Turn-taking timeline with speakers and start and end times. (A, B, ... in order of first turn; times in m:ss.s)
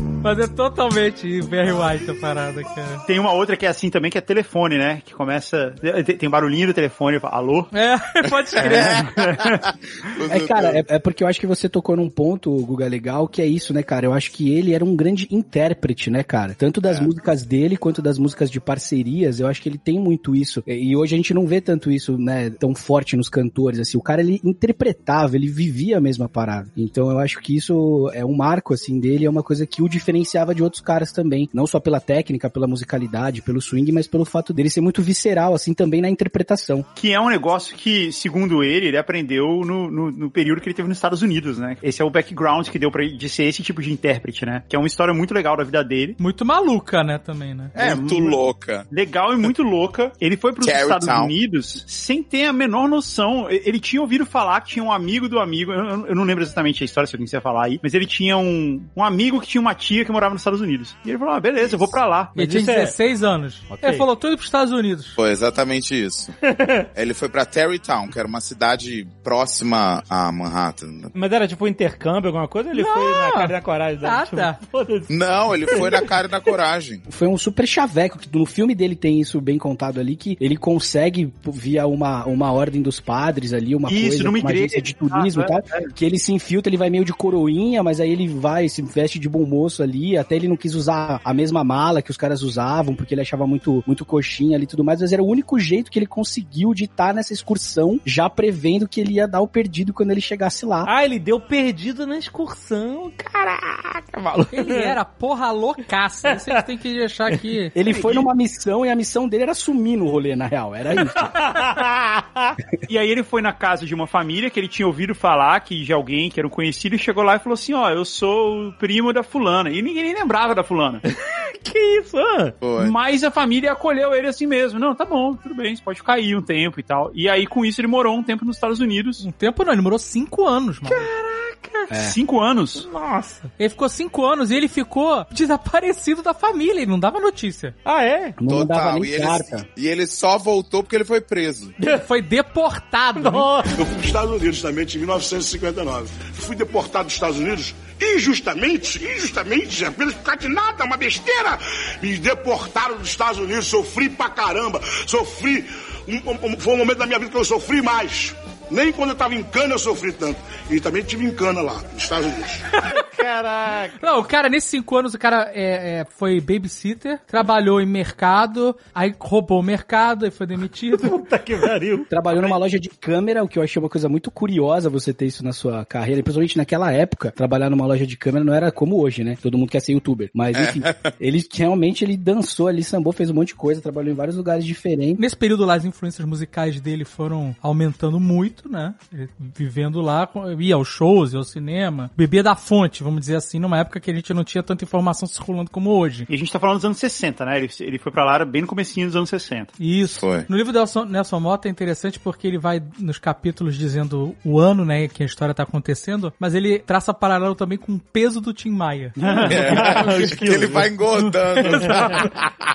0:00.2-0:03.0 A
0:03.0-0:07.7 B
0:07.7-0:09.1 A
0:08.5-0:10.8 C
0:09.2-0:09.6 B
0:10.3-0:36.9 D
0:16.8-0:17.1 C
0:37.0-0:46.2 B
0:46.2-0:47.8 A
0:47.8-1:02.3 B
0:47.8-0:48.9 C
0:50.6-0:51.3 C
1:02.3-1:02.9 E
1:02.3-1:05.2 A
1:03.8-1:04.1 E
1:05.2-1:06.3 C
1:06.9-1:11.1 C
1:11.1-1:15.1 E
1:12.7-1:13.5 A
1:14.0-1:14.6 A
1:15.1-1:17.0 C
1:15.6-1:16.1 E
1:17.1-1:40.9 D
1:23.9-1:25.9 B
1:40.8-1:44.9 E
1:44.5-1:47.7 A
1:47.7-1:51.3 D
1:47.9-1:48.3 B
1:51.2-1:52.5 E
1:52.9-2:01.0 B
2:01.4-2:02.6 E
2:02.6-2:02.9 C
2:02.8-2:09.2 B
2:09.2-2:11.1 A
2:10.8-2:11.9 E
2:11.9-2:12.2 D
2:11.9-2:12.9 B
2:12.7-2:13.5 E
2:13.6-2:17.7 A
2:17.8-2:18.4 E
2:18.4-2:19.6 D
2:18.5-2:21.7 C
2:21.8-2:23.5 A
2:23.2-2:23.7 E
2:23.7-2:42.6 F
2:42.9-2:44.1 E
2:44.0-2:51.2 A
2:50.9-2:52.5 E
2:52.1-3:05.2 D
3:00.5-3:01.0 C
3:05.2-3:16.3 A
3:16.3-3:19.7 B
3:19.8-3:29.7 A
3:20.0-3:20.5 C
3:29.2-3:30.7 B
3:29.5-3:32.3 C
3:29.6-3:30.9 E
3:31.2-3:32.3 A